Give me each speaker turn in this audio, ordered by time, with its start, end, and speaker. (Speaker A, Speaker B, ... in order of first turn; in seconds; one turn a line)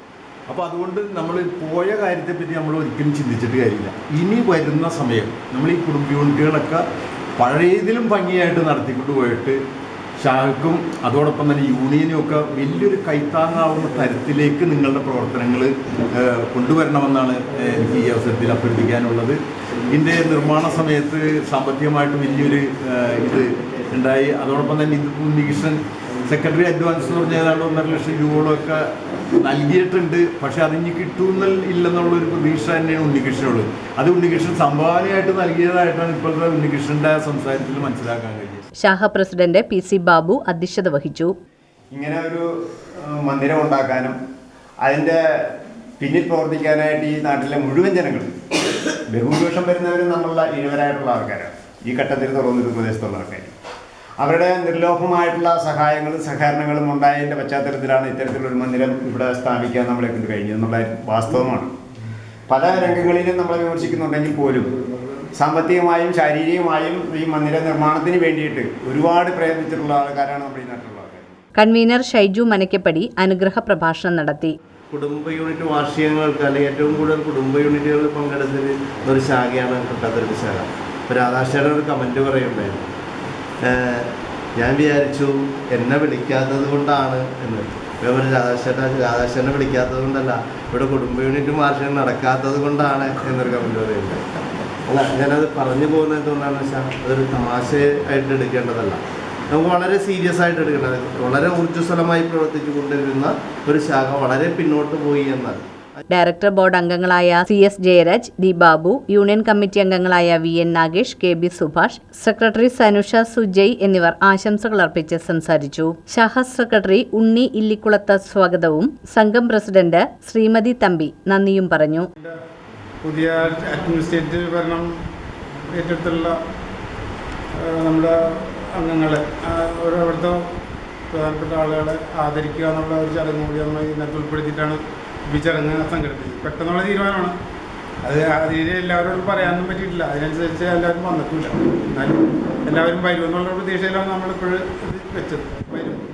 Speaker A: 0.5-6.8
Speaker A: 7.4-9.6
Speaker A: 10.2-38.6
Speaker B: 38.8-41.3
Speaker C: 41.9-44.2
Speaker C: 44.8-48.3
Speaker C: 49.1-53.5
Speaker C: 54.2-61.7
Speaker C: 62.5-64.7
Speaker C: 65.4-71.4
Speaker B: 71.5-74.5
Speaker D: 74.9-82.9
Speaker D: 83.6-94.2
Speaker D: 94.8-105.7
Speaker B: 106.1-122.1
Speaker E: 123.0-124.8
Speaker E: 125.7-126.3
Speaker E: 127.6-130.4
Speaker E: 131.1-137.3
Speaker E: 138.1-146.0